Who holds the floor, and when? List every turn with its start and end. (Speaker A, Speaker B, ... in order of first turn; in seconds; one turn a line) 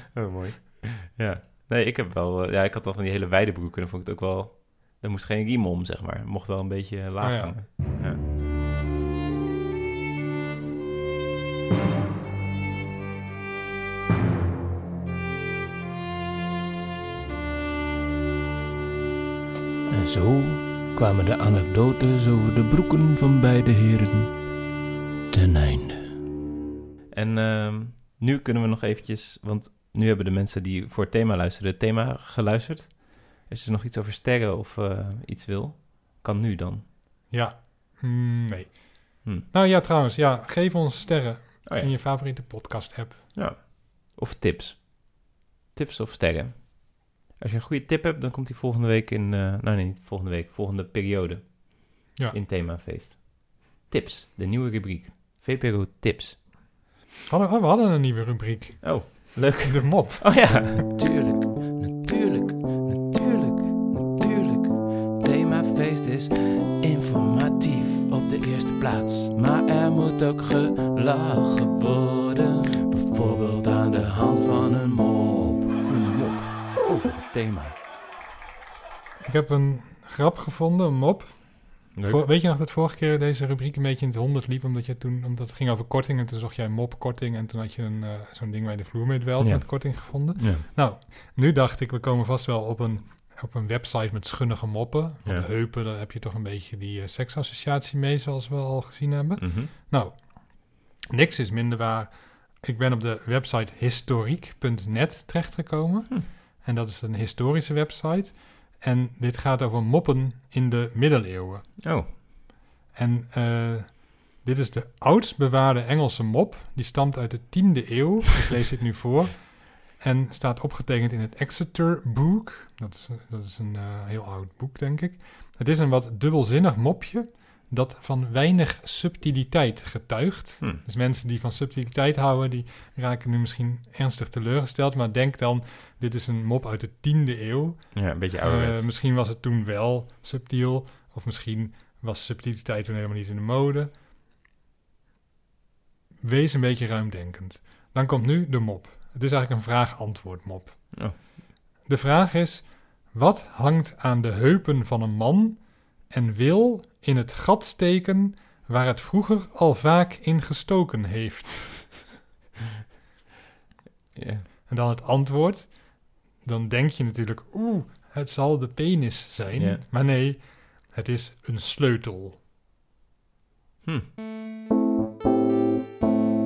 Speaker A: 0.1-8.2
Speaker B: 7.2-7.6
Speaker C: 19.9-24.3
Speaker C: 25.3-26.2
Speaker A: 27.1-36.9
Speaker B: 37.3-43.3
Speaker A: 41.6-41.9
Speaker A: 43.3-56.4
Speaker B: 57.3-60.8
Speaker A: 58.8-60.9
Speaker C: 60.9-77.7
Speaker B: 79.2-111.8
Speaker A: 81.9-82.2
Speaker A: 89.4-90.6
Speaker A: 99.4-99.7
Speaker A: 111.8-112.1
Speaker B: 112.9-143.9
Speaker A: 137.9-138.9
Speaker B: 146.2-151.3
Speaker B: 151.8-162.0
Speaker A: 164.1-164.4
Speaker B: 164.7-172.4
Speaker A: 169.5-169.8